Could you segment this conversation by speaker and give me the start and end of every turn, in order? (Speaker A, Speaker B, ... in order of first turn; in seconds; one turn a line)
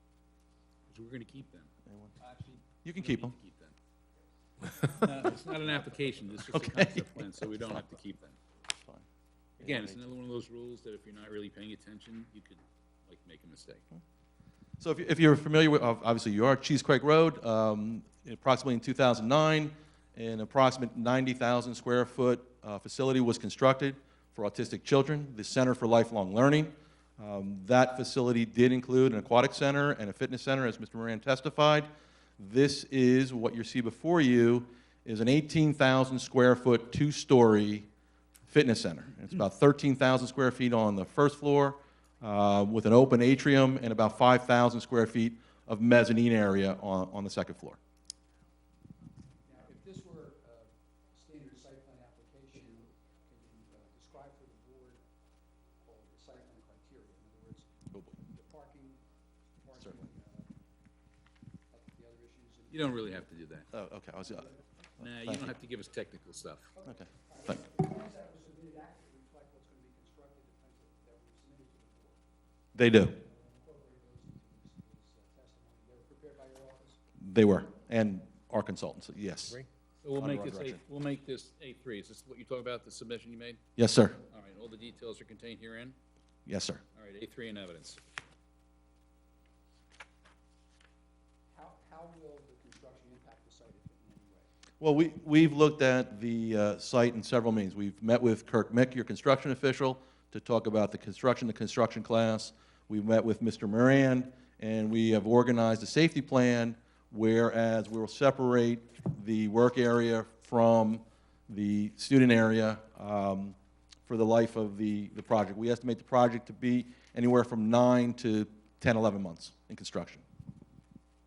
Speaker A: 0.9-3.8
Speaker B: 1.9-2.1
Speaker B: 2.8-3.4
Speaker A: 5.0-8.4
Speaker B: 6.5-7.1
Speaker B: 8.8-9.0
Speaker B: 9.6-10.0
Speaker A: 9.6-13.8
Speaker B: 14.8-37.9
Speaker B: 38.5-47.8
Speaker C: 49.4-55.0
Speaker C: 55.8-59.0
Speaker B: 57.9-58.2
Speaker C: 59.6-60.5
Speaker C: 61.7-63.2
Speaker A: 62.7-63.7
Speaker B: 63.7-65.5
Speaker A: 65.0-66.7
Speaker C: 66.7-72.2
Speaker B: 66.9-67.5
Speaker B: 72.8-73.2
Speaker C: 73.1-77.0
Speaker B: 77.2-79.6
Speaker A: 80.0-83.6
Speaker B: 80.2-80.8
Speaker B: 83.8-84.2
Speaker A: 84.3-86.0
Speaker B: 86.5-86.8
Speaker A: 87.0-88.0
Speaker C: 91.5-94.5
Speaker B: 94.8-113.5
Speaker B: 114.1-120.2